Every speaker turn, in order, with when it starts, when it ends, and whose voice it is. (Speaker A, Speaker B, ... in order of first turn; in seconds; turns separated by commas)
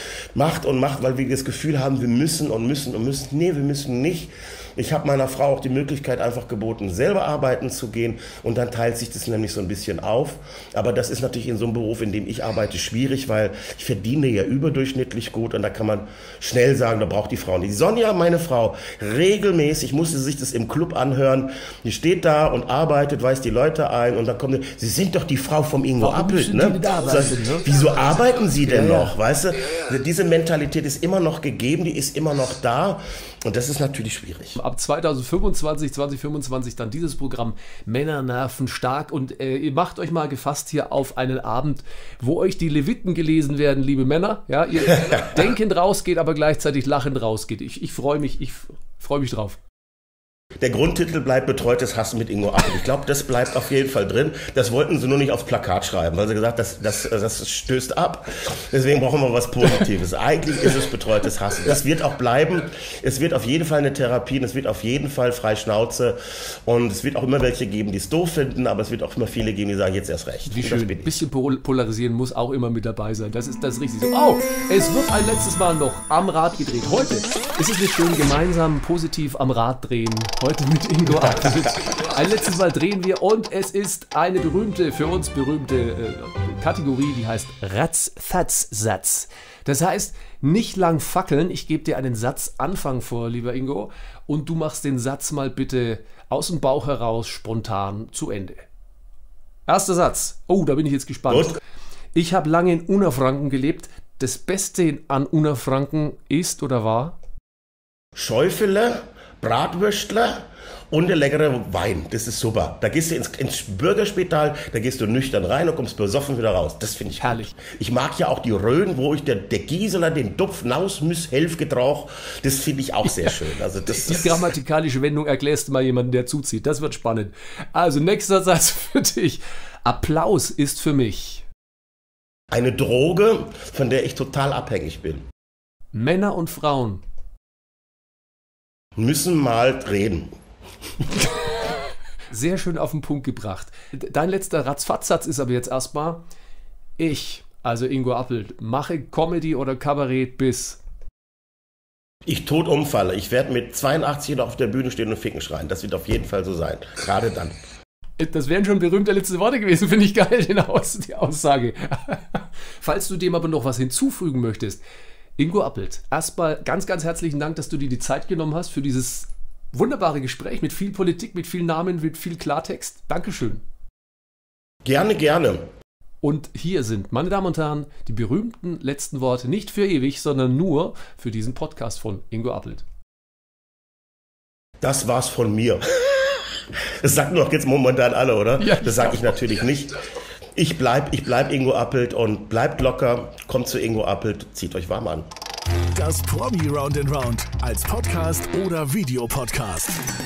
Speaker A: 0.3-34.6, Speaker B: 26.0-29.1, Speaker B: 34.5-49.6, Speaker A: 50.6-71.1, Speaker B: 70.5-98.6, Speaker B: 99.7-101.6, Speaker A: 101.3-101.6, Speaker B: 102.1-107.2, Speaker A: 108.2-124.5, Speaker B: 117.2-117.5, Speaker B: 123.8-131.4, Speaker A: 132.5-135.2, Speaker B: 135.9-137.0, Speaker A: 138.9-140.3, Speaker B: 142.3-146.2, Speaker B: 147.0-150.8, Speaker A: 152.2-157.6, Speaker B: 158.2-164.8, Speaker B: 165.4-173.6, Speaker A: 174.8-175.7, Speaker B: 176.2-182.8, Speaker A: 184.8-190.0, Speaker B: 188.6-189.4, Speaker A: 190.5-195.3, Speaker C: 195.9-199.9